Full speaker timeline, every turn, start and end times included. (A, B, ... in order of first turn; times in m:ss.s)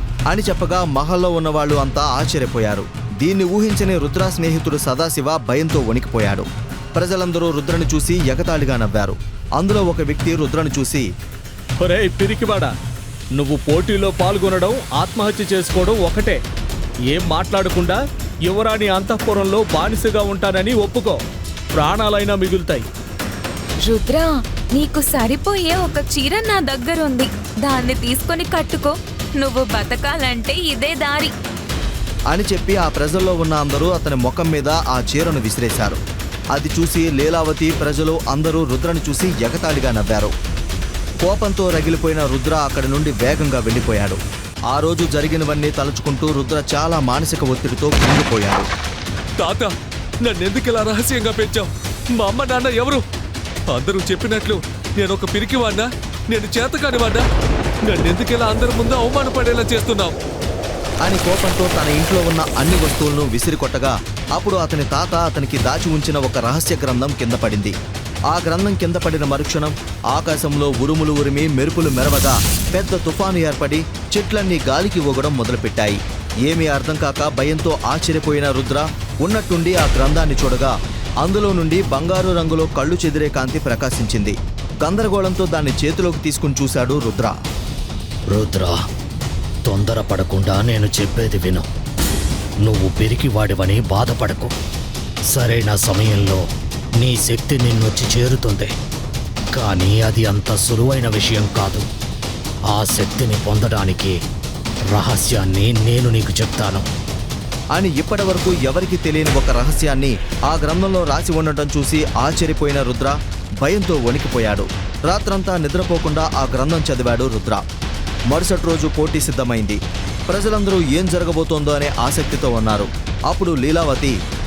0:00.3-0:11.0 A
0:11.8-0:12.7 B
0:13.4-0:16.4 B
0:17.1-0:21.2 B
0:21.8-0:22.8 B
0:23.8-0:31.3 C
0:32.3-0:36.0 A
0:36.5-0:40.3 A
0:41.2-0:44.2 A
0:44.7-0:48.7 A
0:49.4-0:53.0 D
0:53.7-0:57.2 D
0:57.8-1:00.2 D
1:01.0-1:07.7 A
1:08.3-1:20.7 A
1:21.2-1:27.4 A
1:28.3-1:28.8 E
1:29.6-1:31.7 E
1:32.6-1:34.5 E
1:35.3-1:36.4 E
1:37.0-1:38.7 E
1:39.5-1:41.9 E
1:42.7-1:44.2 E
1:44.9-1:46.9 E
1:47.7-1:57.6 A
1:58.3-2:04.1 A